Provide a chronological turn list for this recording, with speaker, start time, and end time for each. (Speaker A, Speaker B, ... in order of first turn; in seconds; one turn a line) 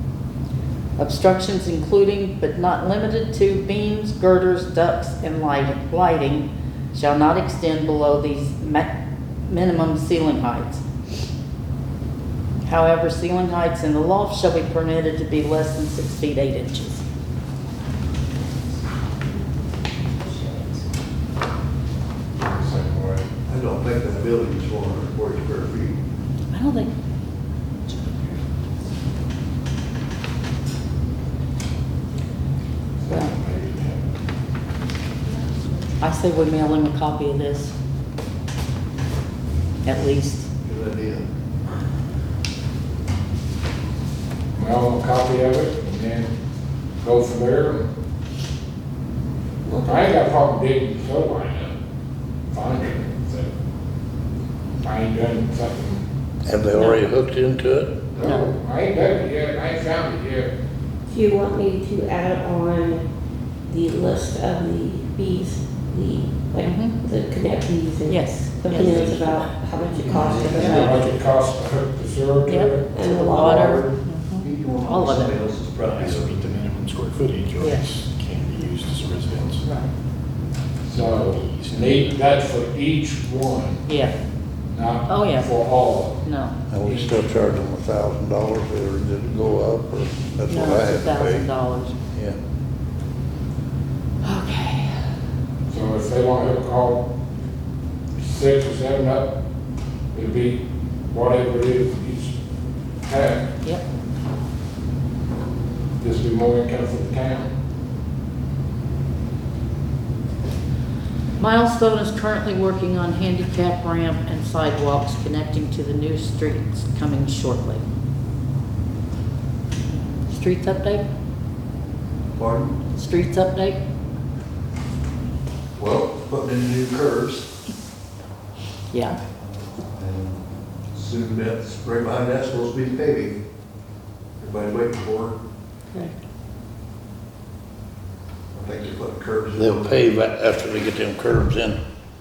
Speaker A: 1.0-8.9
Speaker A: 9.4-10.8
Speaker A: 12.7-17.0
Speaker B: 20.2-20.8
Speaker C: 22.4-23.2
Speaker D: 23.5-26.0
Speaker A: 26.5-26.9
Speaker A: 27.9-28.4
Speaker C: 33.0-34.1
Speaker A: 33.1-33.3
Speaker A: 36.0-37.8
Speaker A: 39.8-40.5
Speaker D: 40.6-41.2
Speaker C: 44.5-46.3
Speaker C: 47.0-47.9
Speaker B: 49.6-50.1
Speaker C: 49.8-51.8
Speaker C: 52.5-53.5
Speaker C: 54.8-56.1
Speaker E: 56.4-57.9
Speaker A: 56.7-57.0
Speaker C: 58.1-60.5
Speaker A: 58.2-58.5
Speaker B: 61.1-63.0
Speaker B: 63.7-71.2
Speaker A: 66.6-67.0
Speaker A: 68.1-69.5
Speaker A: 70.1-71.0
Speaker D: 70.2-70.8
Speaker C: 70.8-72.9
Speaker A: 72.5-75.3
Speaker B: 72.9-73.8
Speaker D: 73.2-76.6
Speaker F: 75.8-79.7
Speaker A: 77.6-77.8
Speaker A: 79.6-79.9
Speaker C: 80.8-83.9
Speaker F: 80.9-82.2
Speaker A: 83.8-84.2
Speaker C: 84.7-86.3
Speaker A: 85.1-85.5
Speaker A: 86.2-86.5
Speaker E: 86.7-91.5
Speaker C: 86.8-87.2
Speaker A: 90.5-91.9
Speaker A: 94.2-94.9
Speaker C: 95.7-97.1
Speaker C: 98.2-99.3
Speaker C: 100.1-102.3
Speaker C: 103.0-103.5
Speaker C: 106.0-107.5
Speaker A: 111.4-117.8
Speaker A: 120.1-121.0
Speaker D: 122.4-122.8
Speaker A: 122.9-123.8
Speaker D: 125.8-127.5
Speaker A: 128.9-129.2
Speaker D: 129.9-133.4
Speaker D: 134.4-135.4
Speaker D: 138.5-139.9
Speaker E: 139.6-141.8